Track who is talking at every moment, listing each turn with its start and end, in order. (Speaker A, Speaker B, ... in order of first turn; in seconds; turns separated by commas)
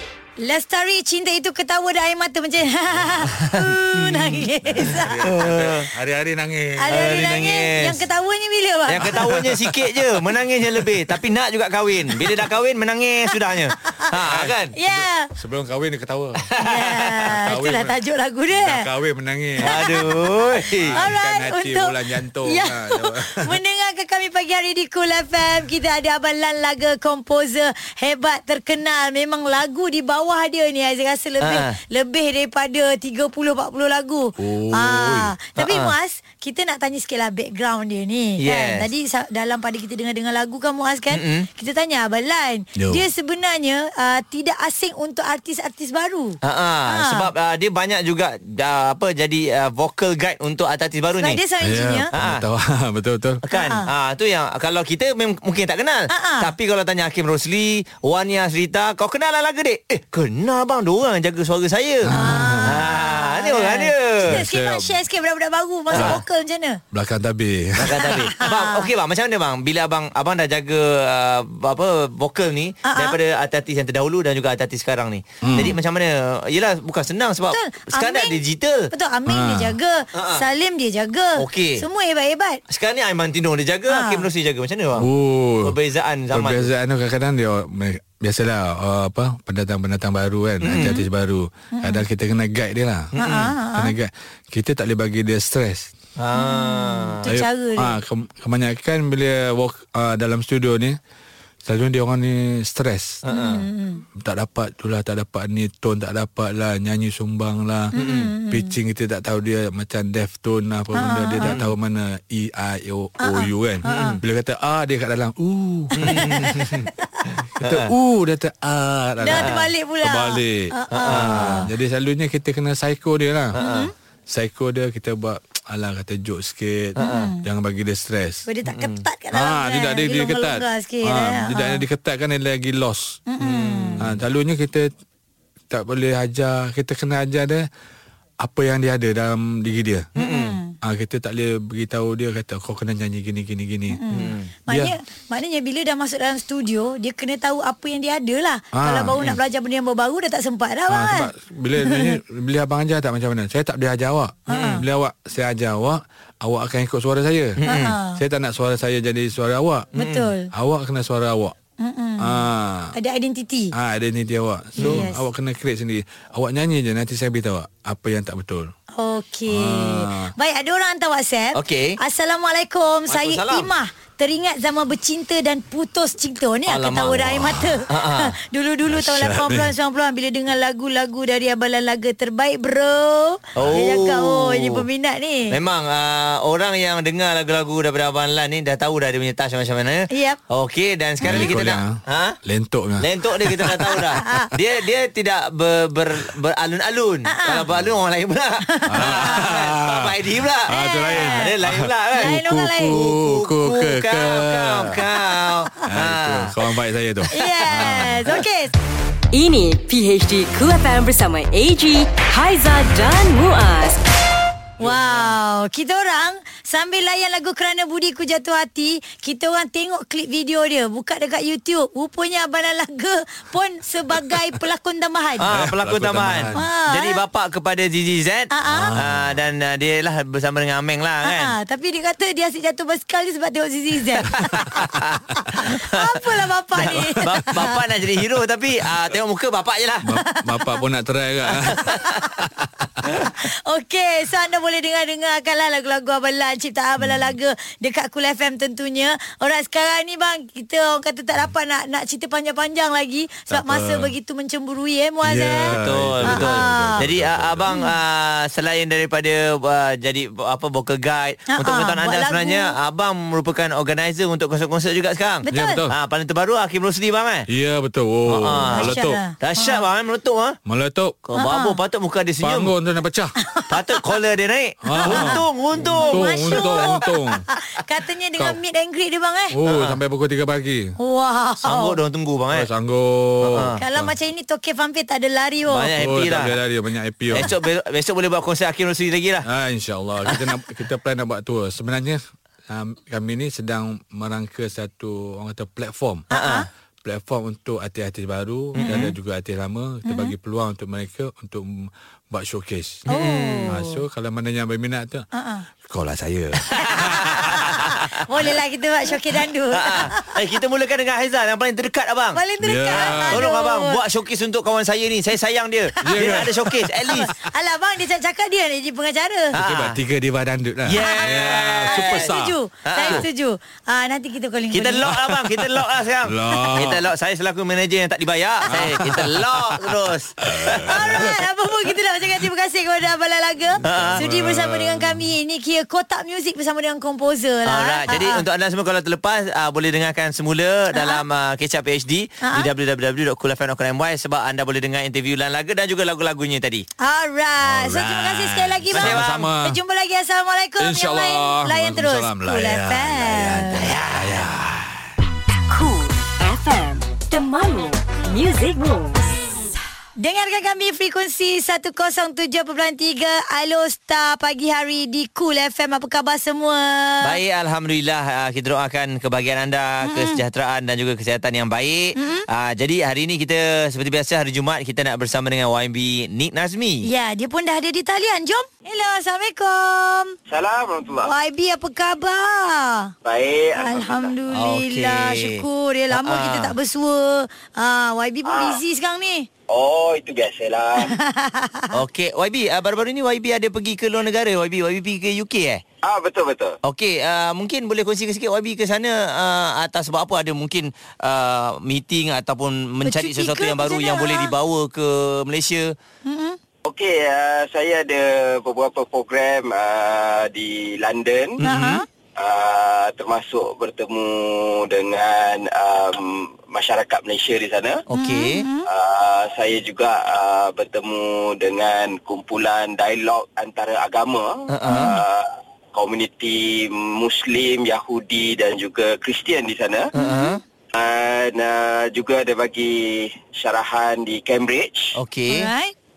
Speaker A: 0.4-5.2, Speaker B: 4.6-7.3, Speaker C: 5.2-5.9, Speaker A: 6.8-9.3, Speaker C: 6.9-8.0, Speaker C: 8.9-14.8, Speaker B: 9.0-9.8, Speaker B: 14.2-16.5, Speaker A: 14.8-15.3, Speaker C: 16.5-17.1, Speaker A: 16.6-18.9, Speaker B: 17.3-18.0, Speaker B: 18.5-23.6, Speaker A: 19.6-20.1, Speaker C: 19.6-21.0, Speaker A: 20.9-47.3, Speaker C: 31.4-31.8, Speaker B: 34.4-35.3, Speaker C: 35.6-36.0, Speaker C: 38.4-38.9, Speaker C: 41.1-41.5, Speaker B: 42.8-43.0, Speaker C: 46.4-51.4, Speaker A: 51.2-52.1, Speaker B: 51.6-53.4, Speaker C: 52.1-52.4, Speaker C: 53.5-64.4, Speaker A: 53.5-53.9, Speaker A: 56.1-56.5, Speaker B: 62.1-62.9, Speaker A: 62.1-66.8, Speaker B: 64.2-65.0, Speaker C: 65.9-66.2, Speaker B: 65.9-66.2, Speaker B: 66.9-68.3, Speaker C: 67.8-78.9, Speaker A: 68.4-68.9, Speaker A: 72.9-73.2, Speaker B: 75.4-75.8, Speaker A: 77.5-78.4, Speaker A: 78.9-82.6, Speaker B: 79.3-79.8, Speaker C: 80.2-80.5, Speaker C: 81.4-81.8, Speaker C: 82.7-85.1, Speaker A: 83.9-84.3, Speaker B: 85.0-85.8, Speaker C: 85.6-86.7, Speaker B: 86.3-93.1, Speaker C: 90.6-91.0, Speaker A: 91.8-92.0, Speaker C: 93.2-93.5, Speaker A: 93.2-94.0, Speaker B: 93.8-95.9, Speaker C: 96.2-97.2, Speaker A: 96.3-98.0, Speaker B: 97.3-101.0, Speaker B: 101.7-103.2, Speaker C: 103.2-103.7, Speaker A: 103.3-104.0, Speaker B: 104.2-107.9, Speaker A: 108.0-108.7, Speaker C: 108.0-108.3, Speaker B: 108.5-116.7, Speaker A: 111.0-111.6, Speaker C: 111.5-111.7, Speaker A: 113.2-114.2, Speaker C: 113.9-114.2, Speaker A: 116.0-116.7, Speaker C: 116.0-117.9, Speaker B: 117.6-123.6, Speaker A: 119.2-121.7, Speaker C: 119.3-119.6, Speaker C: 120.9-121.7, Speaker C: 123.6-123.9, Speaker A: 123.6-123.9, Speaker B: 124.3-128.5, Speaker C: 127.0-127.3, Speaker A: 127.0-127.4, Speaker A: 128.5-131.8, Speaker C: 128.7-129.0, Speaker B: 129.3-133.2, Speaker A: 133.3-134.0, Speaker C: 133.4-134.2, Speaker B: 134.0-134.9, Speaker B: 135.7-137.7, Speaker B: 138.4-140.1, Speaker C: 140.2-140.6, Speaker A: 140.2-140.8, Speaker B: 140.8-144.0, Speaker A: 143.9-152.2, Speaker C: 144.1-144.5, Speaker B: 144.7-144.9, Speaker B: 148.7-149.3, Speaker B: 150.9-157.6, Speaker A: 154.5-154.8, Speaker C: 154.5-154.8, Speaker C: 157.6-158.0, Speaker A: 157.7-158.2, Speaker B: 158.1-159.9, Speaker C: 160.0-160.3, Speaker A: 160.0-160.5, Speaker B: 160.5-161.6, Speaker A: 161.8-163.7, Speaker B: 162.2-162.9, Speaker B: 163.7-168.7, Speaker A: 164.8-165.2, Speaker C: 164.8-165.1, Speaker A: 168.9-185.5, Speaker B: 169.5-170.3, Speaker C: 171.6-172.0, Speaker C: 173.1-173.7, Speaker C: 176.7-178.3, Speaker B: 177.2-177.8, Speaker B: 178.9-179.7, Speaker B: 183.6-183.8, Speaker C: 183.6-184.8, Speaker C: 185.5-192.4, Speaker A: 190.1-190.4, Speaker A: 191.2-191.5, Speaker B: 191.2-193.9, Speaker C: 193.0-206.6, Speaker A: 194.2-194.5, Speaker A: 197.3-197.7, Speaker A: 198.7-199.5, Speaker B: 198.9-205.1, Speaker A: 200.7-201.5, Speaker A: 202.2-202.9, Speaker B: 205.9-208.4, Speaker A: 207.3-208.7, Speaker D: 209.3-214.0, Speaker A: 214.8-225.5, Speaker C: 225.4-231.5, Speaker B: 225.5-226.6, Speaker A: 226.6-227.2, Speaker A: 228.5-228.9, Speaker B: 228.7-229.4, Speaker A: 231.2-234.8, Speaker C: 234.3-236.2, Speaker A: 235.8-237.8, Speaker C: 236.8-240.1, Speaker B: 236.9-237.2, Speaker B: 240.0-242.7, Speaker A: 240.3-240.8, Speaker A: 241.8-242.3, Speaker A: 243.4-257.0, Speaker B: 247.0-247.3, Speaker B: 253.5-254.1, Speaker B: 255.2-257.7, Speaker C: 255.7-267.5, Speaker A: 261.5-262.7, Speaker A: 265.4-265.8, Speaker B: 265.5-265.9, Speaker B: 267.5-269.2, Speaker C: 268.3-270.6, Speaker A: 268.7-269.8, Speaker B: 270.7-271.2, Speaker C: 271.3-272.7, Speaker A: 271.4-271.8, Speaker B: 272.4-273.4, Speaker A: 273.4-273.8, Speaker C: 273.7-276.9, Speaker B: 274.8-277.4, Speaker A: 275.0-279.6, Speaker B: 279.5-281.0, Speaker C: 279.7-280.0, Speaker A: 281.0-282.0, Speaker C: 281.6-282.7, Speaker B: 282.5-284.1, Speaker C: 283.4-283.8, Speaker A: 283.8-285.9, Speaker C: 285.7-286.6, Speaker B: 285.9-287.5, Speaker C: 287.3-289.5, Speaker B: 289.4-296.3, Speaker C: 296.3-296.7, Speaker A: 296.3-296.7, Speaker B: 297.1-303.1, Speaker C: 298.8-299.1, Speaker A: 298.8-299.1, Speaker A: 300.1-300.3, Speaker C: 303.1-303.8, Speaker A: 303.1-303.9, Speaker B: 303.7-305.3, Speaker A: 305.3-305.7, Speaker B: 305.9-307.9, Speaker C: 306.7-308.2, Speaker A: 306.9-310.4, Speaker C: 309.7-312.4, Speaker A: 312.4-314.0, Speaker B: 312.6-313.5, Speaker C: 312.9-317.3, Speaker B: 316.0-316.7, Speaker A: 316.1-319.6, Speaker C: 319.5-320.0, Speaker B: 319.6-322.6, Speaker C: 320.9-322.3, Speaker A: 321.0-325.1, Speaker C: 322.9-323.2, Speaker C: 324.7-331.2, Speaker B: 325.2-327.0, Speaker B: 328.7-331.4, Speaker A: 330.9-338.4, Speaker B: 333.8-335.3, Speaker C: 333.8-334.2, Speaker C: 337.7-346.9, Speaker A: 340.9-341.2, Speaker A: 342.4-342.7, Speaker A: 347.0-353.9, Speaker B: 347.6-349.8, Speaker C: 348.9-349.5, Speaker B: 350.8-355.2, Speaker C: 353.9-354.4, Speaker D: 355.7-359.4, Speaker A: 360.2-367.4, Speaker C: 367.2-377.1, Speaker A: 370.1-370.4, Speaker A: 372.2-372.5, Speaker A: 377.0-380.4, Speaker E: 380.5-381.3, Speaker A: 381.3-383.1, Speaker E: 383.2-384.3, Speaker A: 383.8-389.5, Speaker C: 384.5-386.7, Speaker E: 388.5-388.8, Speaker E: 389.7-391.1, Speaker A: 391.0-392.0, Speaker C: 391.9-395.8, Speaker E: 396.0-396.8, Speaker C: 396.8-405.9, Speaker A: 403.0-404.5, Speaker A: 406.3-406.6, Speaker E: 406.9-411.6, Speaker C: 411.6-412.0, Speaker A: 411.6-412.1, Speaker E: 412.4-418.0, Speaker C: 418.1-418.6, Speaker A: 418.1-418.9, Speaker E: 418.9-430.1, Speaker C: 424.7-425.2, Speaker A: 424.9-425.1, Speaker C: 430.1-430.6, Speaker A: 430.2-430.6, Speaker E: 431.0-435.1, Speaker C: 435.2-435.7, Speaker A: 435.5-435.9